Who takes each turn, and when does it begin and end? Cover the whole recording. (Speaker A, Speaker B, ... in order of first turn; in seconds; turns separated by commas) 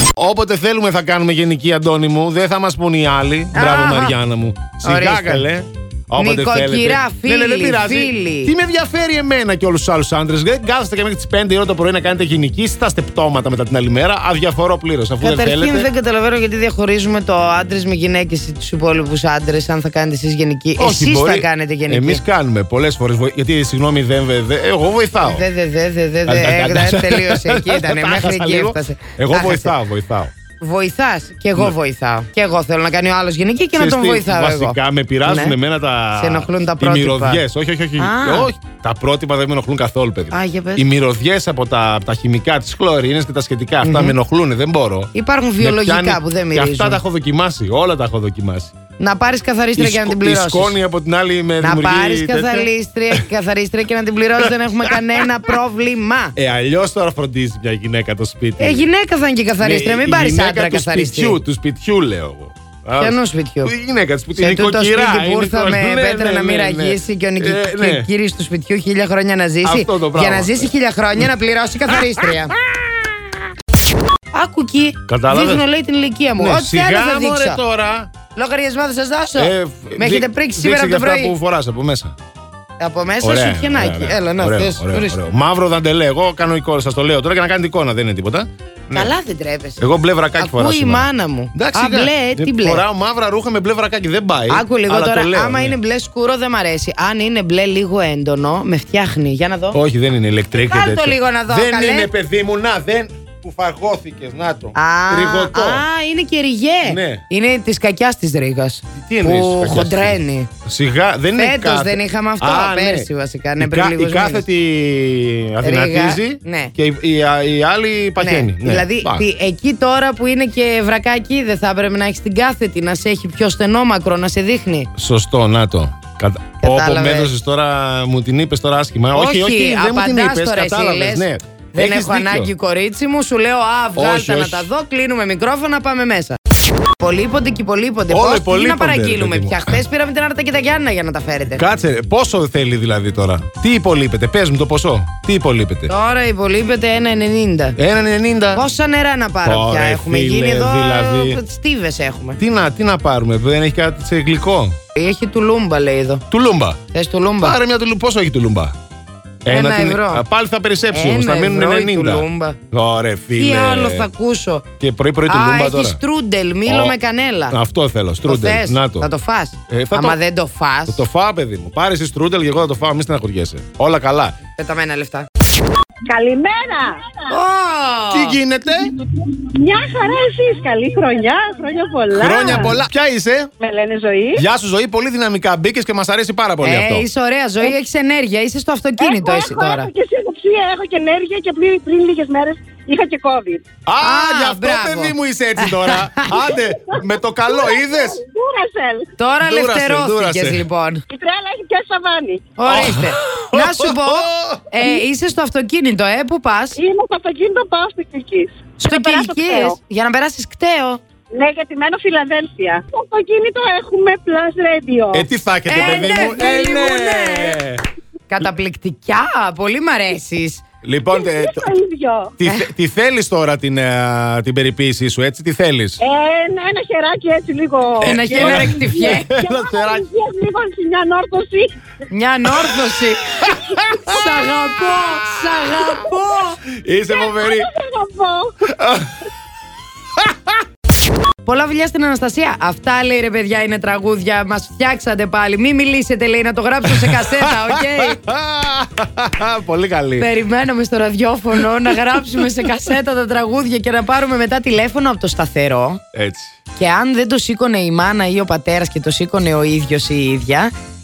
Speaker A: 0.2-15.9, Speaker B: 3.5-4.2, Speaker B: 4.8-5.5, Speaker B: 6.2-8.5, Speaker B: 15.2-22.2, Speaker A: 20.8-25.4, Speaker B: 25.2-29.7, Speaker A: 26.2-30.3, Speaker B: 30.6-35.6, Speaker A: 33.7-48.7, Speaker B: 36.1-37.4, Speaker B: 38.0-38.5, Speaker B: 40.3-40.9, Speaker B: 43.8-44.2, Speaker B: 45.1-47.0, Speaker B: 49.0-50.8, Speaker A: 49.7-53.2, Speaker B: 51.6-56.4, Speaker A: 54.5-55.0, Speaker A: 56.4-58.9, Speaker B: 58.6-61.4, Speaker A: 59.6-68.1, Speaker B: 63.0-63.7, Speaker B: 64.3-72.5, Speaker A: 69.6-70.7, Speaker A: 71.9-73.1, Speaker B: 74.3-77.6, Speaker A: 75.1-75.7, Speaker A: 76.4-78.1, Speaker B: 78.3-81.3, Speaker A: 79.3-82.1, Speaker B: 82.8-85.2, Speaker A: 83.2-89.1, Speaker B: 88.9-92.8, Speaker A: 89.8-95.8, Speaker B: 94.5-99.8, Speaker A: 99.7-105.8, Speaker B: 100.6-102.1, Speaker B: 104.7-110.5, Speaker A: 106.8-107.2, Speaker A: 108.9-119.2, Speaker B: 111.3-114.5, Speaker B: 115.6-116.7, Speaker B: 118.2-124.9, Speaker A: 125.0-132.5, Speaker B: 126.6-127.3, Speaker B: 129.1-136.4, Speaker A: 133.9-134.7, Speaker B: 137.0-141.7, Speaker A: 138.1-139.8, Speaker A: 141.6-145.9, Speaker B: 145.9-147.8, Speaker A: 147.8-148.6, Speaker B: 148.5-152.4, Speaker A: 149.4-151.4, Speaker A: 152.4-154.8, Speaker B: 154.9-156.2, Speaker A: 156.3-156.8, Speaker B: 156.9-157.6, Speaker A: 157.4-158.8, Speaker A: 159.4-164.1, Speaker B: 159.5-160.2, Speaker B: 160.9-162.6, Speaker B: 163.3-164.7, Speaker A: 164.8-166.0, Speaker B: 165.3-167.6, Speaker A: 166.7-167.0, Speaker A: 167.5-169.1, Speaker B: 168.2-171.0, Speaker A: 169.7-170.2, Speaker A: 170.9-174.3, Speaker B: 174.6-175.3, Speaker C: 176.1-177.1, Speaker B: 177.3-178.4, Speaker A: 178.1-178.9, Speaker C: 179.2-182.8, Speaker A: 182.1-183.5, Speaker C: 183.6-184.4, Speaker A: 184.3-187.1, Speaker B: 186.6-189.9, Speaker C: 189.0-193.6, Speaker A: 193.8-198.2, Speaker B: 194.0-196.3, Speaker C: 197.5-199.1, Speaker B: 199.2-201.0, Speaker A: 199.4-200.6, Speaker C: 201.1-202.4, Speaker B: 202.6-206.8, Speaker A: 202.7-204.7, Speaker C: 206.8-209.8, Speaker B: 208.8-211.0, Speaker C: 211.3-216.8, Speaker A: 215.1-217.8, Speaker B: 215.7-217.6, Speaker B: 218.3-220.6, Speaker A: 220.8-221.6, Speaker C: 221.1-222.3, Speaker A: 222.4-226.0, Speaker C: 226.0-231.7, Speaker A: 228.0-230.0, Speaker B: 228.0-229.3, Speaker B: 232.1-236.6, Speaker A: 233.4-235.8, Speaker A: 236.7-237.7, Speaker C: 237.1-238.6, Speaker A: 238.6-239.1, Speaker A: 240.2-240.5, Speaker B: 241.4-248.2, Speaker A: 246.9-250.3, Speaker B: 250.2-256.0, Speaker A: 251.5-252.7, Speaker A: 256.1-256.6, Speaker B: 256.8-260.7